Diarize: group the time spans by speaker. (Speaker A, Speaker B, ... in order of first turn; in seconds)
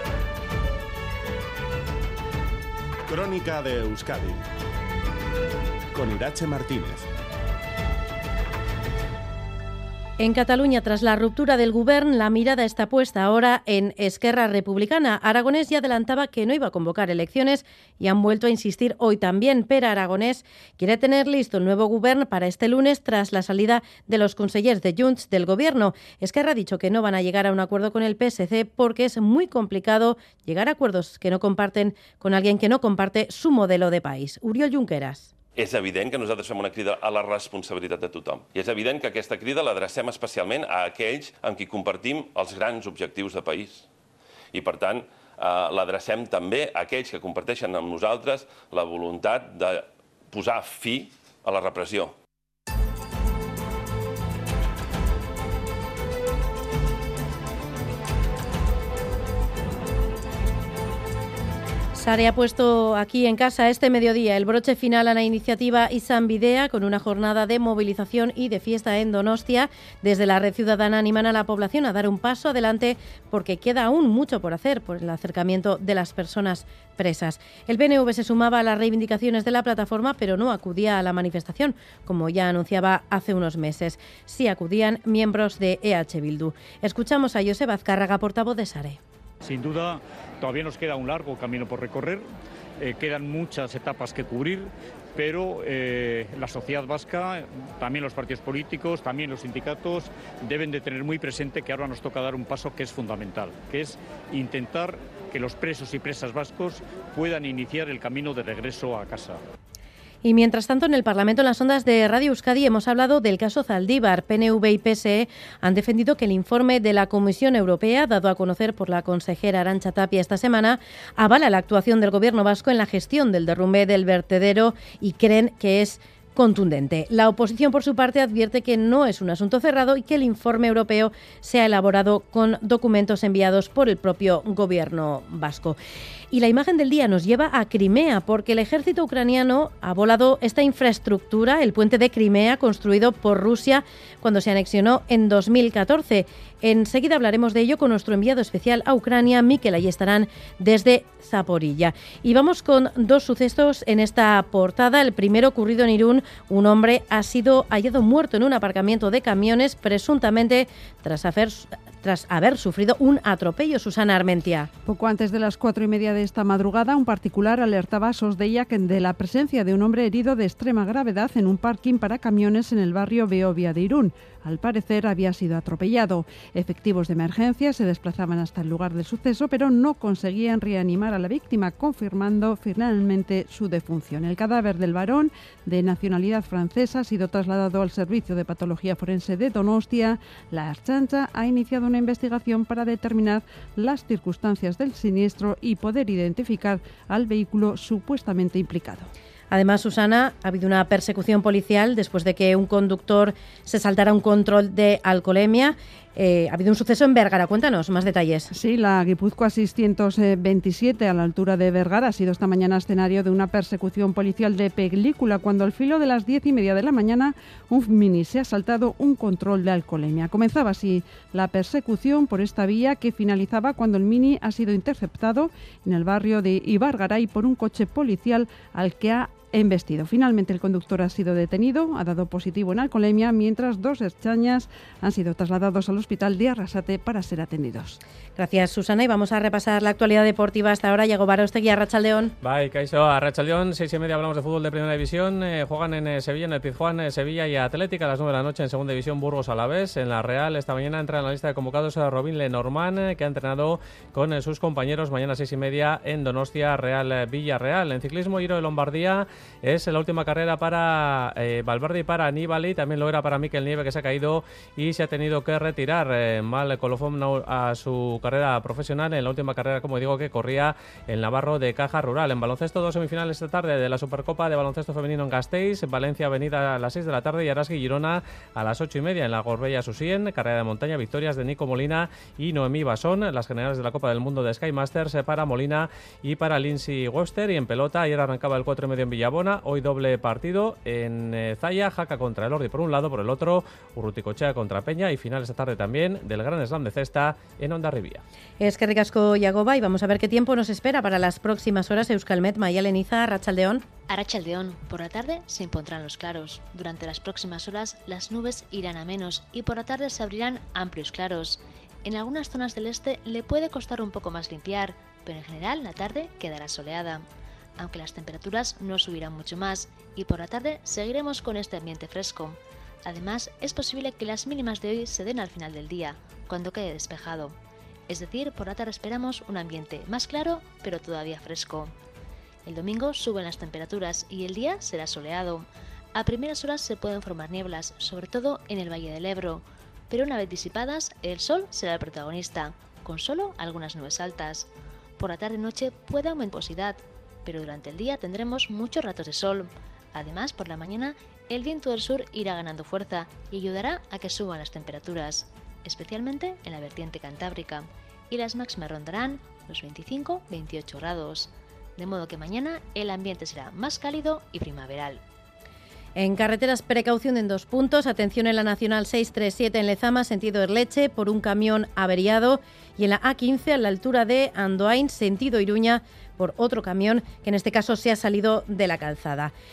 Speaker A: 3.1-4.4, 6.0-7.0
Speaker B: 10.2-35.3, 61.9-89.0, 110.2-135.8, 136.3-164.7, 199.5-208.5, 238.3-242.3, 298.6-303.8, 366.1-379.5
Speaker C: 35.6-43.9, 44.5-52.1
Speaker D: 89.4-92.2, 92.8-109.4
Speaker E: 164.8-199.1, 208.5-238.0
Speaker F: 242.4-298.2
Speaker G: 304.1-317.2, 317.8-327.6, 328.1-331.9, 332.6-365.2